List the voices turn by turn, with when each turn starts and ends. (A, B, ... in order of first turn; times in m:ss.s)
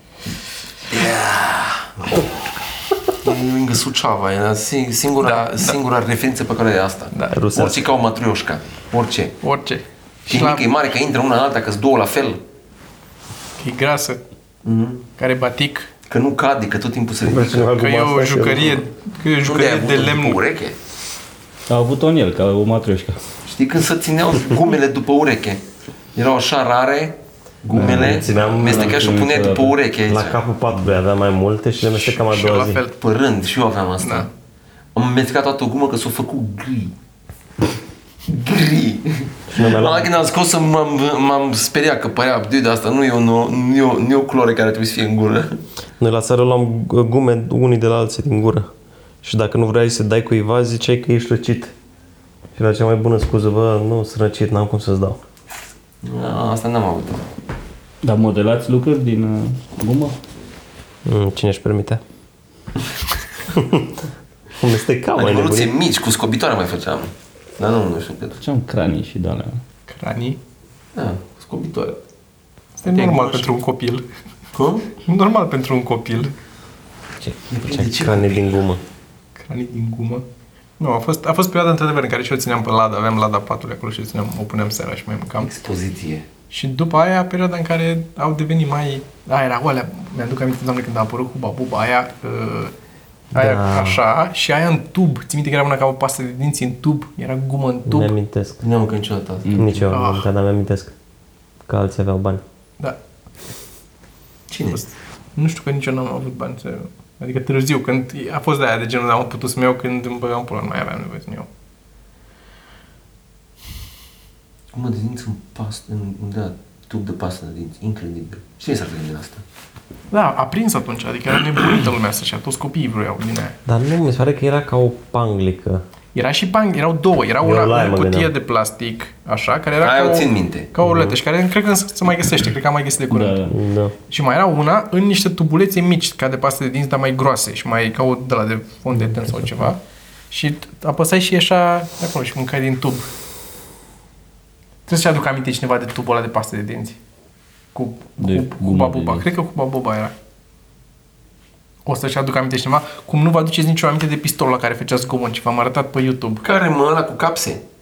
0:00.9-0:01.9 A
0:03.2-0:09.4 A
0:05.3-0:05.8 B
0:07.1-0:07.4 B
0:07.3-0:07.9 C
0:09.4-0:10.7 B
0:10.3-0:12.4 A
0:13.6-0:14.2 B
0:14.6-0:15.0 A
0:15.2-0:15.9 B
0:16.1-0:17.7 A
0:17.2-0:18.8 C
0:17.7-0:20.4 B
0:19.4-0:20.8 A
0:21.7-0:23.2 D
0:23.5-0:25.6 A
0:26.2-0:30.4 A
0:27.7-0:29.0 C
0:27.7-0:29.7 D
0:30.1-0:32.8 C
0:31.8-0:33.0 B
0:33.0-0:34.3 A
0:34.0-0:34.3 B
0:35.0-0:36.9 A
0:38.3-0:45.6 A
0:39.5-0:40.1 C
0:46.0-0:48.7 C
0:49.2-0:51.7 C
0:52.6-0:55.2 C
0:56.0-0:57.2 A
0:58.0-1:00.2 D
1:01.1-1:02.0 C
1:03.5-1:04.0 C
1:04.6-1:05.7 C
1:05.2-1:08.4 A
1:08.4-1:09.6 D
1:09.9-1:10.4 B
1:11.0-1:12.0 A
1:12.8-1:14.0 B
1:12.9-1:13.5 A
1:14.5-1:14.9 A
1:15.0-1:16.3 B
1:17.2-1:18.8 C
1:17.5-1:18.5 A
1:19.4-1:20.2 B
1:20.8-1:25.5 B
1:25.4-1:26.3 A
1:26.5-1:32.7 B
1:33.3-1:34.0 C
1:33.4-1:38.1 B
1:37.9-1:38.6 C
1:38.6-1:39.6 A
1:39.4-1:39.9 D
1:39.6-1:40.9 C
1:39.9-1:40.3 B
1:41.7-1:42.4 C
1:44.5-1:44.8 A
1:44.7-1:51.5 B
1:54.7-1:59.4 A
2:00.1-2:03.6 B
2:03.7-2:05.8 C
2:06.2-2:13.4 B
2:07.4-2:08.3 C
2:09.8-2:10.7 A
2:10.8-2:11.2 C
2:13.1-2:13.6 D
2:13.5-2:13.9 C
2:14.1-2:19.8 B
2:20.3-2:23.1 B
2:24.9-2:27.0 B
2:27.7-2:30.1 B
2:28.2-2:29.3 D
2:31.9-2:36.5 B
2:36.4-2:37.6 A